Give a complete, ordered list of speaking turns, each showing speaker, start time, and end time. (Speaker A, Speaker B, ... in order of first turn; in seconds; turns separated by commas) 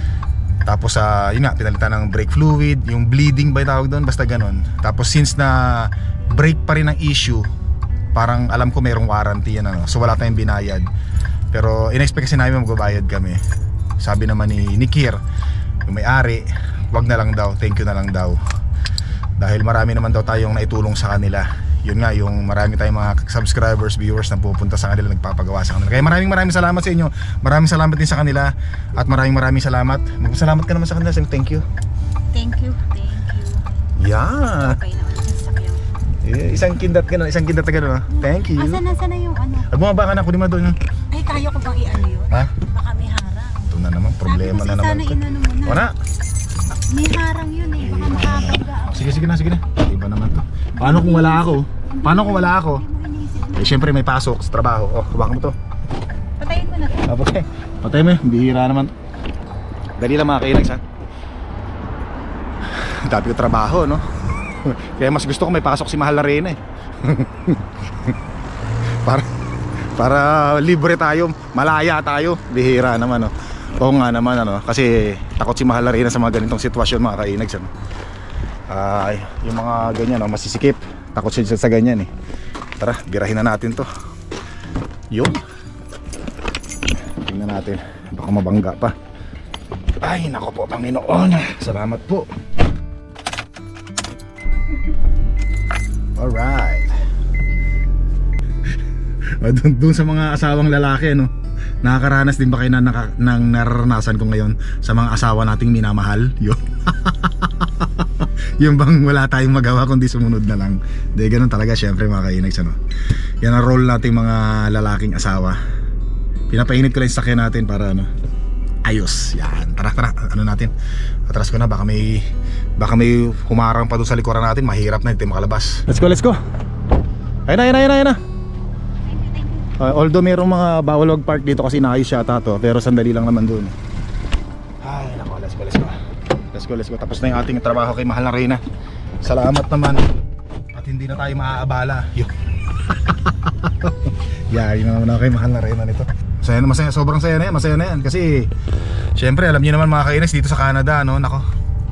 Speaker A: 0.6-7.5, Speaker A: 8.1-10.9, Speaker A: 11.5-13.4, Speaker A: 14.0-15.2, Speaker A: 15.9-18.4, Speaker A: 19.4-31.6, Speaker B: 32.3-33.7, Speaker A: 34.0-34.8, Speaker B: 34.4-35.8, Speaker A: 36.2-38.8, Speaker B: 38.4-39.7, Speaker A: 39.6-40.8, Speaker B: 41.1-43.7, Speaker A: 43.6-46.0, Speaker B: 44.2-45.9, Speaker B: 46.8-49.3, Speaker A: 47.8-52.8, Speaker B: 50.8-53.9, Speaker A: 53.5-55.5, Speaker B: 56.4-57.1, Speaker A: 57.0-58.9, Speaker A: 60.0-60.8, Speaker A: 62.7-64.0, Speaker A: 64.6-68.1, Speaker A: 70.0-77.7, Speaker A: 78.7-82.1, Speaker A: 82.8-83.9, Speaker A: 85.1-85.4, Speaker A: 87.2-88.9, Speaker A: 90.0-92.3, Speaker A: 96.2-96.9, Speaker A: 99.4-101.3, Speaker A: 101.8-112.8, Speaker A: 113.4-115.6, Speaker A: 116.5-118.1, Speaker A: 118.8-120.7, Speaker A: 121.3-122.2, Speaker A: 122.8-126.4, Speaker A: 127.5-128.2, Speaker B: 129.1-129.7, Speaker A: 129.8-133.7, Speaker A: 134.8-136.0, Speaker A: 136.5-138.6, Speaker A: 139.2-140.1, Speaker A: 140.7-142.3, Speaker A: 142.9-148.5, Speaker A: 149.2-151.4